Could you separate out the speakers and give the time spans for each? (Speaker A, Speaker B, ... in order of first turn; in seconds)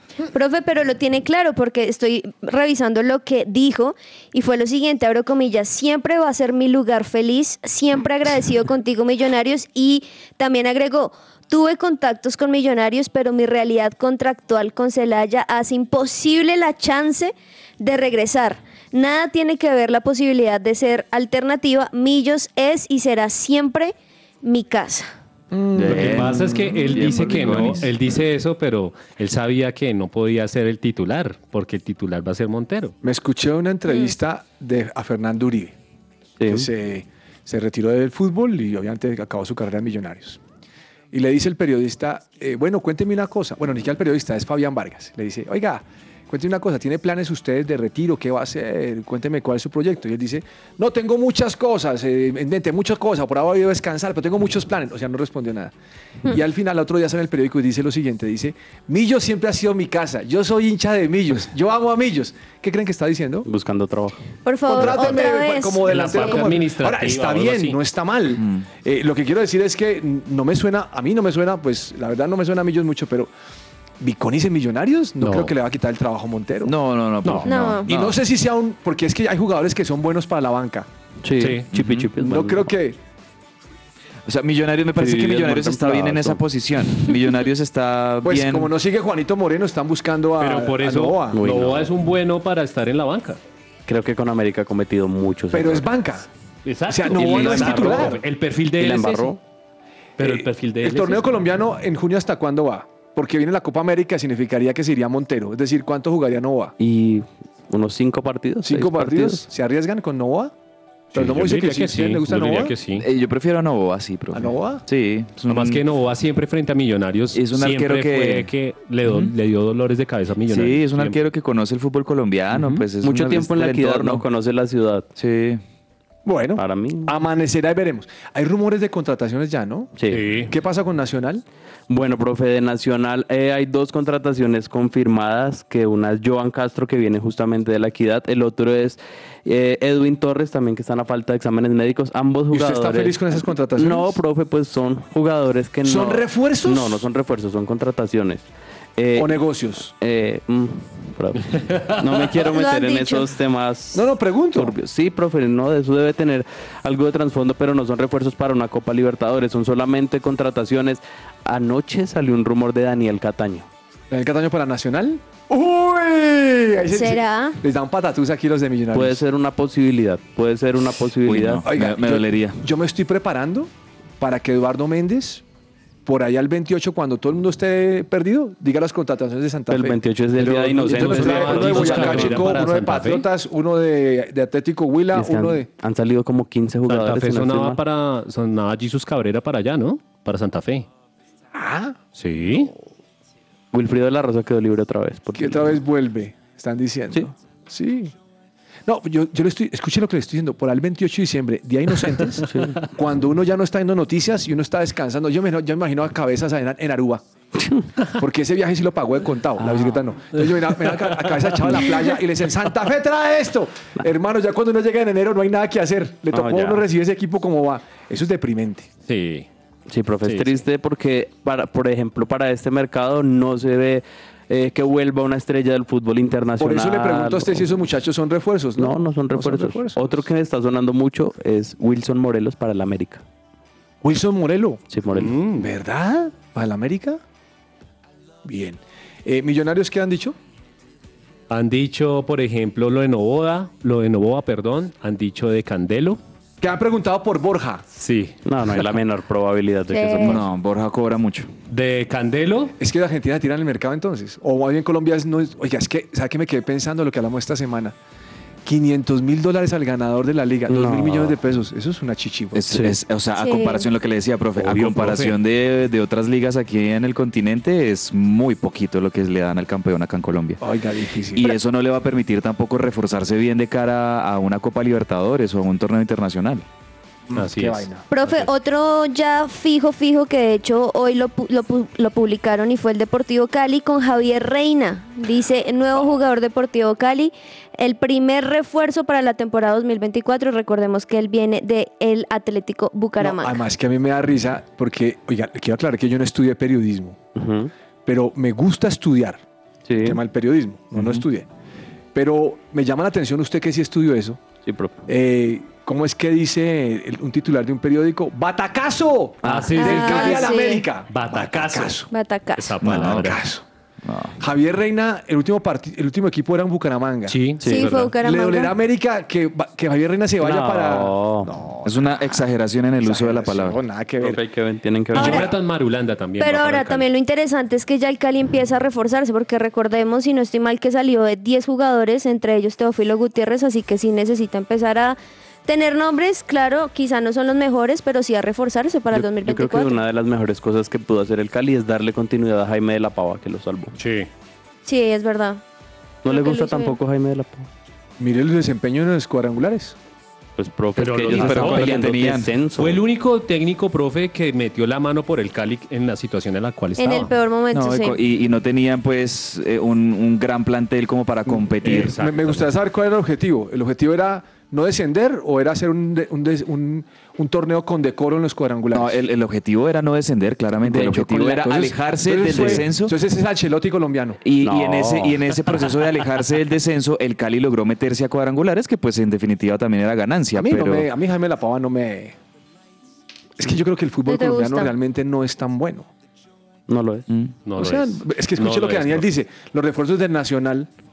Speaker A: 0.3-25.1, 64.4-66.4, 77.4-77.9, 152.4-153.3, 166.9-167.6, 249.9-250.4, 263.4-263.9, 278.1-293.6, 309.8-310.8, 312.1-312.8, 317.6-318.7, 325.2-325.5, 326.4-340.0, 344.9-345.6, 346.2-347.0, 357.0-358.2, 384.2-384.9
Speaker B: 25.5-27.7, 33.0-35.7, 36.5-40.4, 41.1-55.7, 56.3-63.5, 64.7-73.3, 74.0-76.7, 77.9-80.9, 82.2-83.0, 88.2-91.4, 95.5-96.3, 96.9-98.2, 100.2-106.7, 108.6-110.5, 111.1-112.8, 114.3-114.8, 126.2-131.4, 142.5-144.2, 145.8-147.1, 149.2-149.9, 153.9-154.7, 164.1-169.2, 171.7-175.4, 176.1-185.7, 191.5-192.0, 195.3-198.1, 198.8-207.2, 208.1-218.9, 226.6-230.2, 234.0-234.8, 235.6-237.2, 238.4-240.3, 246.6-247.8, 252.8-257.9, 258.6-262.6, 270.6-271.5, 277.3-278.0, 293.2-297.2, 298.1-299.4, 300.0-301.4, 302.1-304.4, 305.1-312.1, 312.9-313.6, 314.4-317.4, 318.2-322.5, 323.0-324.4, 325.1-325.5, 348.2-349.9, 351.4-351.7, 361.8-369.2, 371.7-374.4, 380.5-382.3, 383.6-386.1, 387.8-390.9
Speaker C: 25.7-27.9, 68.3-68.7, 76.6-78.2, 81.7-82.1, 84.3-88.7, 113.0-115.8, 117.3-118.5, 119.0-119.3, 120.5-124.2, 125.2-125.6, 171.2-172.6, 250.2-251.5, 262.5-270.6, 271.3-276.6, 312.8-313.4, 314.0-314.3, 321.8-323.8, 351.2-352.5, 357.7-362.1, 368.9-373.1, 374.4-381.1
Speaker D: 25.8-32.9, 65.8-67.8, 75.2-75.5, 77.2-77.5, 81.4-81.7, 90.4-93.4, 96.6-99.4, 100.2-101.4, 111.1-113.1, 115.5-121.2, 130.1-130.5, 151.5-152.1, 180.4-183.3, 186.8-190.9, 192.2-192.7, 210.8-211.9, 219.1-219.5, 220.2-220.6, 235.2-235.7, 241.5-246.2, 247.9-248.4, 251.7-252.7, 264.6-265.4, 277.3-278.4, 309.4-310.6, 311.1-312.0, 312.6-313.4, 317.3-318.1, 325.1-327.1, 344.0-344.3, 351.0-352.2, 352.8-357.3, 361.8-362.6, 387.6-389.3
Speaker E: 36.4-36.7, 63.4-64.2, 81.2-82.7, 85.0-86.4, 91.3-91.9, 93.9-95.9, 97.2-98.1, 98.8-99.4, 106.8-109.5, 123.0-125.1, 126.5-127.1, 129.9-130.2, 131.9-143.2, 143.8-148.4, 149.0-151.4, 152.0-163.7, 168.9-171.6, 179.7-182.5, 185.1-187.8, 193.7-195.7, 202.4-202.8, 209.6-210.0, 216.3-216.8, 219.9-227.6, 228.8-233.2, 234.9-235.3, 248.4-250.4, 260.7-261.4, 262.7-263.0, 297.3-297.7, 299.9-300.2, 304.6-305.0, 309.4-309.7, 317.6-317.9, 320.4-321.5, 324.2-325.4, 339.1-343.9, 346.2-347.7, 350.6-353.0, 370.8-371.9, 372.5-372.8, 374.6-375.4, 386.9-387.3